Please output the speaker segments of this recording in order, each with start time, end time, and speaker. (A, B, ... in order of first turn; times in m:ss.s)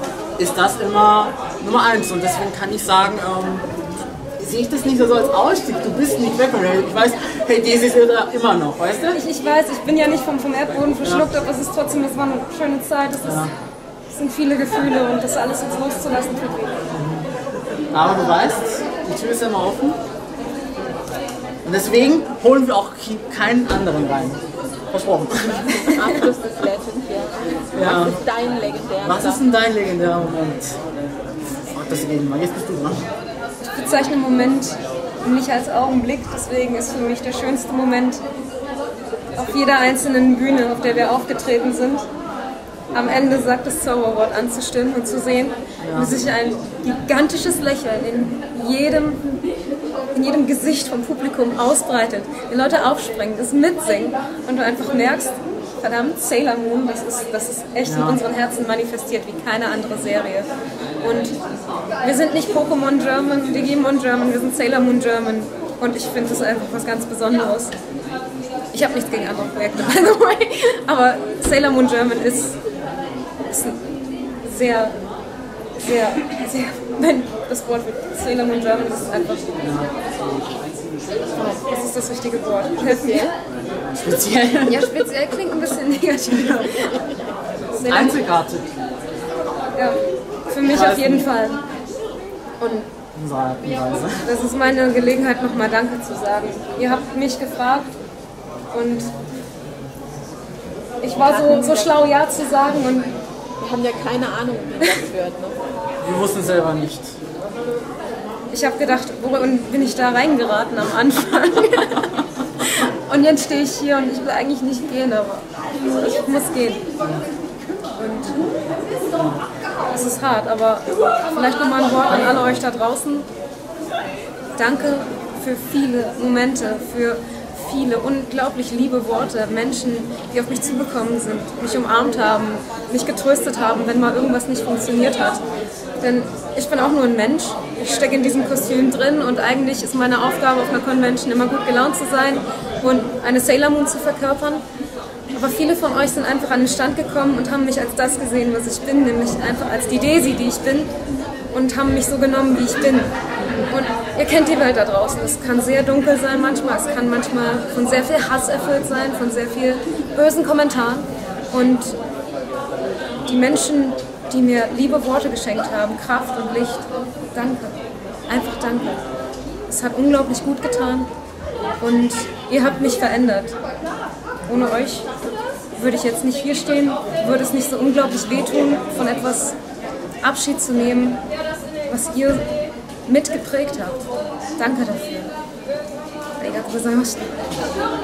0:00.4-0:03.7 A
0:04.4-0:09.2 A
0:09.1-0:13.5 B
0:13.2-0:13.5 A
0:14.1-0:16.8 B
0:16.9-0:17.3 A
0:17.9-0:20.0 A
0:21.6-0:26.1 A
0:25.7-0:29.4 C
0:27.7-0:28.2 A
0:29.0-0:30.8 A
0:31.7-0:33.0 A
0:33.6-0:38.2 B
0:39.3-0:42.0 B
0:42.9-0:49.4 B
0:45.8-0:46.2 A
0:50.1-1:00.5 B
0:57.8-0:58.2 A
1:01.0-1:01.4 B
1:02.0-1:07.7 B
1:08.7-1:12.6 B
1:13.5-1:13.8 B
1:14.4-1:15.0 B
1:15.8-1:19.5 B
1:19.6-1:19.9 A
1:21.3-1:23.3 B
1:22.9-1:23.3 C
1:24.0-1:24.9 A
1:24.6-1:27.1 B
1:27.7-1:28.2 B
1:27.8-1:28.7 A
1:29.8-1:30.0 B
1:30.5-1:31.6 B
1:30.6-1:31.3 A
1:32.6-1:32.9 B
1:33.2-1:34.3 A
1:34.2-1:38.0 B
1:38.7-1:39.1 B
1:41.0-1:43.1 B
1:41.2-1:41.9 C
1:43.6-1:45.6 C
1:46.0-1:47.1 A
1:48.5-1:56.8 B
1:58.0-1:58.4 B
1:59.1-1:59.4 A
1:59.9-2:03.3 B
2:02.1-2:02.5 A
2:04.6-2:15.4 B
2:16.0-2:24.6 B
2:25.3-2:30.9 B
2:31.5-2:33.1 B
2:33.7-2:42.0 B
2:43.3-2:49.0 B
2:49.7-2:51.1 B
2:51.8-2:53.6 B
2:54.5-2:55.1 B
2:55.7-2:59.6 B
3:00.2-3:01.2 B
3:01.9-3:02.5 B
3:03.1-3:04.0 B
3:04.6-3:05.3 B
3:06.4-3:07.3 B